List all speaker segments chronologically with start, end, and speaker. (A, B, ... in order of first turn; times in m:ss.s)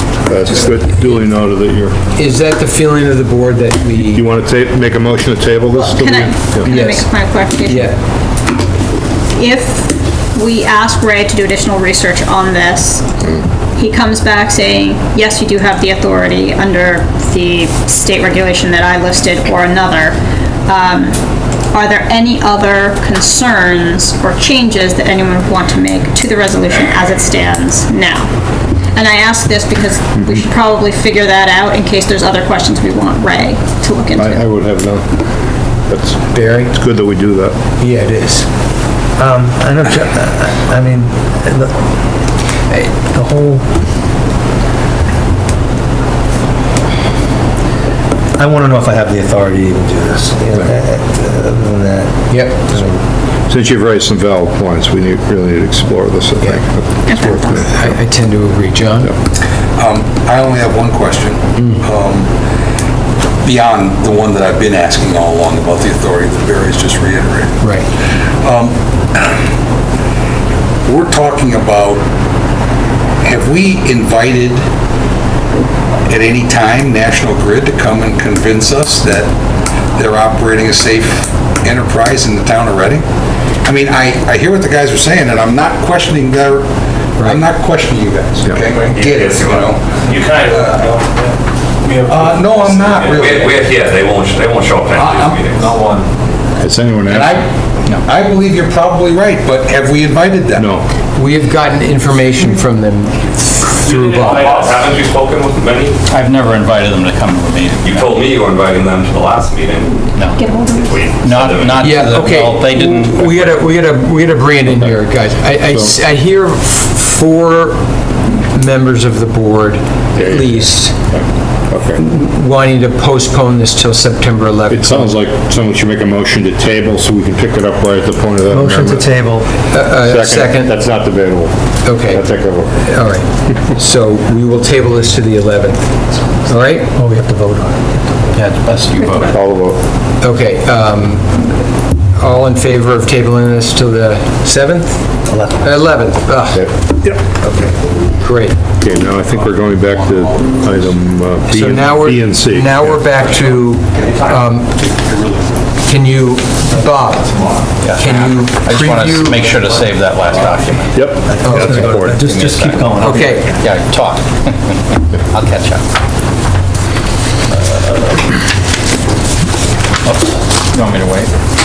0:00.2-0:02.0 A
0:02.1-0:04.2 B
0:04.0-0:06.7 A
0:05.8-0:07.9 C
0:06.6-0:07.1 B
0:07.6-0:07.9 B
0:09.3-0:13.1 C
0:13.8-0:21.2 C
0:21.7-0:28.3 C
0:28.9-0:34.4 C
0:34.2-0:35.2 A
0:35.9-0:37.6 A
0:36.3-0:36.7 B
0:37.8-0:38.5 B
0:39.2-0:41.7 D
0:43.1-0:43.6 D
0:48.4-0:53.0 D
0:52.3-0:52.7 B
0:53.5-0:57.8 A
0:56.4-0:59.1 B
0:57.1-0:57.5 C
0:59.8-1:02.3 E
1:01.6-1:01.8 B
1:03.4-1:07.6 E
1:07.6-1:07.9 B
1:08.4-1:09.4 E
1:10.8-1:12.0 E
1:13.2-1:14.6 E
1:16.0-1:19.3 E
1:19.9-1:23.0 E
1:23.6-1:26.7 E
1:27.2-1:30.9 E
1:28.9-1:30.4 F
1:32.0-1:33.7 E
1:32.6-1:35.8 F
1:34.9-1:36.1 E
1:36.6-1:37.4 A
1:37.0-1:40.7 E
1:40.6-1:40.8 A
1:41.2-1:44.7 B
1:43.8-1:46.0 F
1:44.3-1:44.7 E
1:46.1-1:48.2 G
1:47.8-1:50.1 F
1:50.1-1:50.4 G
1:50.3-1:51.0 C
1:50.6-1:52.1 F
1:51.2-1:53.6 G
1:51.8-2:01.0 B
1:55.6-1:56.0 A
2:00.1-2:02.0 A
2:02.0-2:05.1 B
2:04.7-2:09.1 A
2:08.5-2:09.5 D
2:09.7-2:10.7 B
2:09.9-2:12.8 A
2:11.8-2:12.2 B
2:12.8-2:15.9 B
2:16.4-2:16.9 B
2:16.7-2:18.1 D
2:18.3-2:19.3 G
2:19.1-2:19.8 A
2:20.2-2:25.0 B
2:25.3-2:25.7 D
2:25.6-2:26.7 B
2:27.4-2:28.6 B
2:28.8-2:33.0 A
2:31.5-2:34.7 B
2:35.8-2:37.3 B
2:37.8-2:45.8 G
2:37.9-2:39.5 B
2:40.9-2:42.2 A
2:41.3-2:43.2 D
2:41.4-2:41.9 B
2:43.0-2:43.5 B
2:47.5-2:48.4 G
2:50.0-2:51.3 G